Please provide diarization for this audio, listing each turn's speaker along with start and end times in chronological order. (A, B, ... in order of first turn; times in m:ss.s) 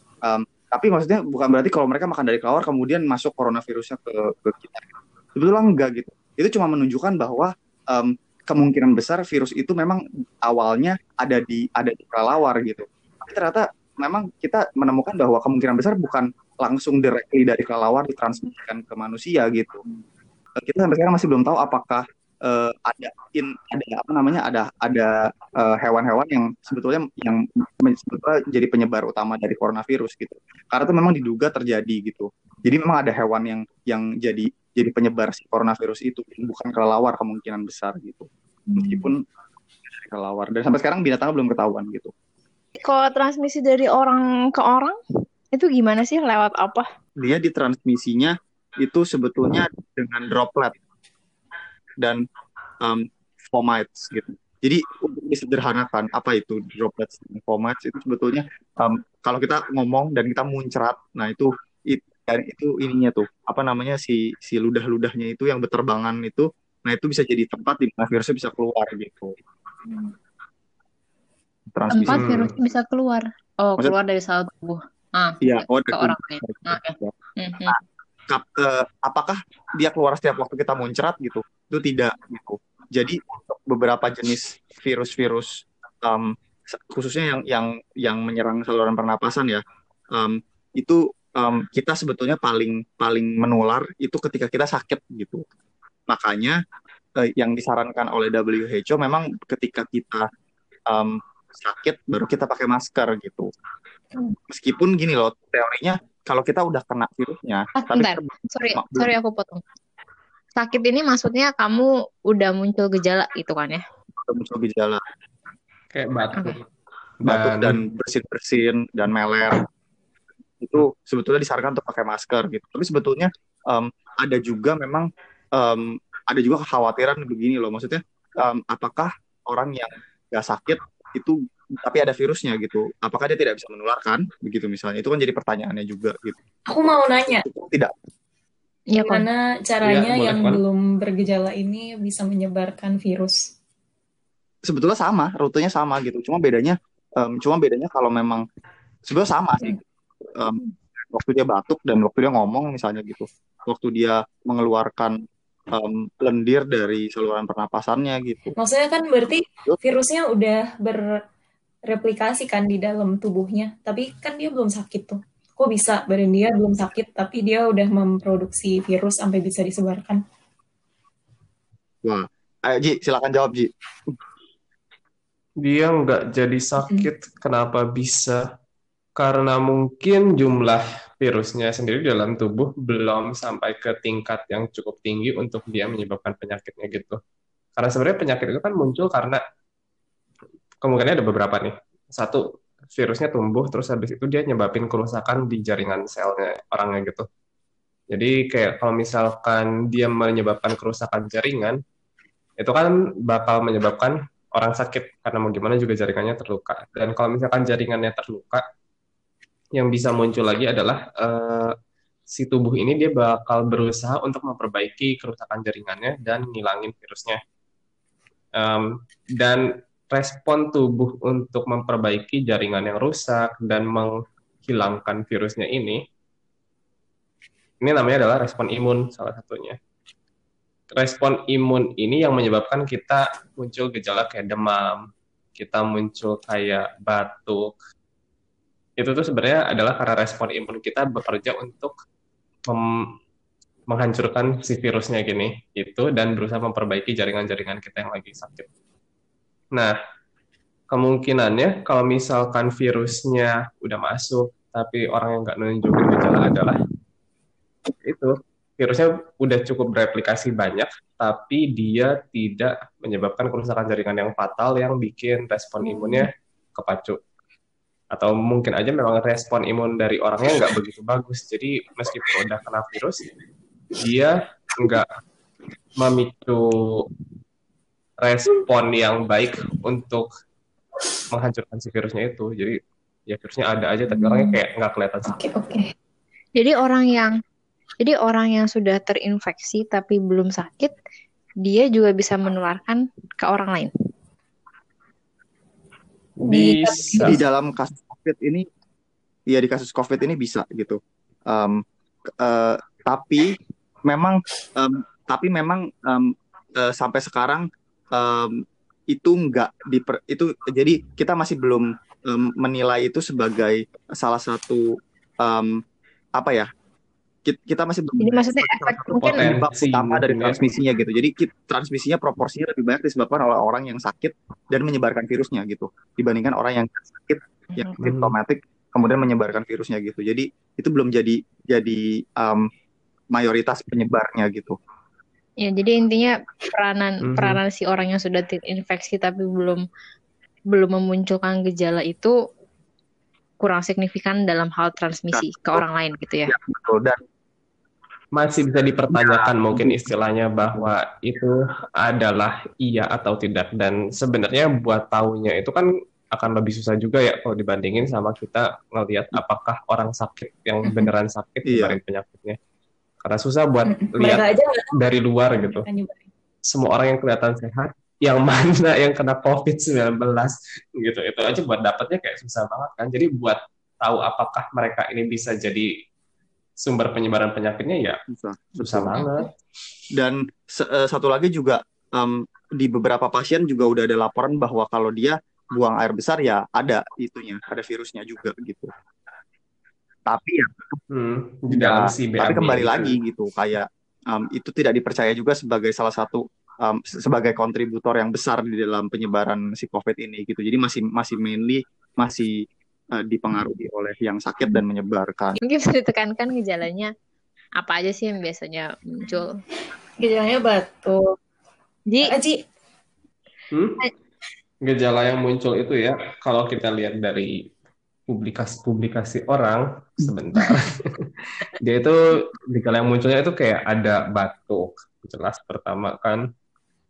0:00.2-0:19.8 A
0:20.6-0:39.2 A
0:39.9-0:42.1 A
0:42.8-0:45.0 B
0:45.5-0:46.9 B
0:47.2-0:50.8 A
0:52.8-1:09.4 A
1:11.7-1:12.5 A
1:11.9-1:17.8 B
1:12.1-1:12.5 C
1:15.4-1:17.1 A
1:18.3-1:29.6 A
1:30.1-1:35.5 A
1:36.1-1:36.6 A
1:37.2-1:40.3 A
1:40.9-1:43.5 A
1:44.5-1:49.1 A
1:47.8-1:49.6 B
1:50.6-1:53.8 B
1:54.2-1:55.0 A
1:55.9-1:56.7 C
1:57.2-1:57.8 C
1:57.2-1:59.6 A
2:00.6-2:16.4 A
2:16.7-2:17.4 D
2:17.3-2:17.9 A
2:18.9-2:19.3 B
2:19.0-2:23.4 D
2:19.8-2:20.6 C
2:24.7-2:28.4 A
2:29.1-2:29.8 A
2:30.3-2:35.2 A
2:35.7-2:38.6 A
2:38.6-2:41.1 D
2:41.9-2:50.2 D
2:52.0-2:54.2 A
2:55.6-2:58.4 C
2:56.8-2:57.1 D
2:59.2-3:07.2 C
3:07.8-3:09.4 C
3:10.8-3:12.4 C
3:13.0-3:17.3 C
3:18.1-3:21.8 C
3:22.6-3:28.6 C
3:29.8-3:31.7 C
3:32.3-3:37.4 C
3:38.6-3:44.1 C
3:44.7-3:46.0 C
3:47.8-3:49.8 C
3:50.9-3:55.0 C
3:55.6-3:57.8 C
3:59.0-4:02.0 C
4:02.7-4:03.1 C
4:03.9-4:08.7 C
4:10.9-4:16.8 C
4:18.0-4:27.2 C
4:25.9-4:26.2 D
4:28.1-4:33.2 C
4:34.0-4:35.1 C
4:36.0-4:37.0 C
4:38.2-4:40.3 C
4:41.3-4:45.4 C
4:44.1-4:44.6 D
4:45.3-4:45.9 D
4:46.6-4:47.4 B
4:48.0-4:51.0 B
4:51.6-4:53.9 B
4:56.4-4:57.4 C
4:56.5-4:57.4 D
4:57.2-4:58.7 A
4:59.5-5:03.6 A
5:04.1-5:15.8 A
5:16.4-5:16.7 A
5:17.4-5:32.7 A
5:18.2-5:19.4 B
5:19.2-5:20.6 C
5:28.0-5:28.3 C
5:33.3-5:34.8 A
5:35.6-5:39.8 B
5:37.2-5:37.6 C
5:40.7-5:42.4 B
5:43.6-5:46.5 B
5:45.3-5:45.8 A
5:46.5-5:47.2 A
5:48.4-6:02.6 C
5:49.1-5:50.0 A
6:01.7-6:02.0 A
6:03.2-6:05.9 C
6:03.9-6:04.9 D
6:05.5-6:06.3 D
6:06.7-6:15.9 C
6:16.8-6:18.2 C
6:18.3-6:19.2 A
6:18.8-6:19.5 C
6:19.2-6:19.4 B
6:20.2-6:28.9 A
6:30.3-6:31.0 A
6:31.1-6:33.2 C
6:31.7-6:45.6 A
6:45.6-6:47.1 B
6:47.8-6:49.6 B
6:50.2-6:51.4 D
6:52.1-6:52.3 B
6:52.2-6:52.6 D
6:53.7-6:54.0 C
6:54.8-6:57.5 C
6:58.3-7:01.0 C
7:01.8-7:06.4 C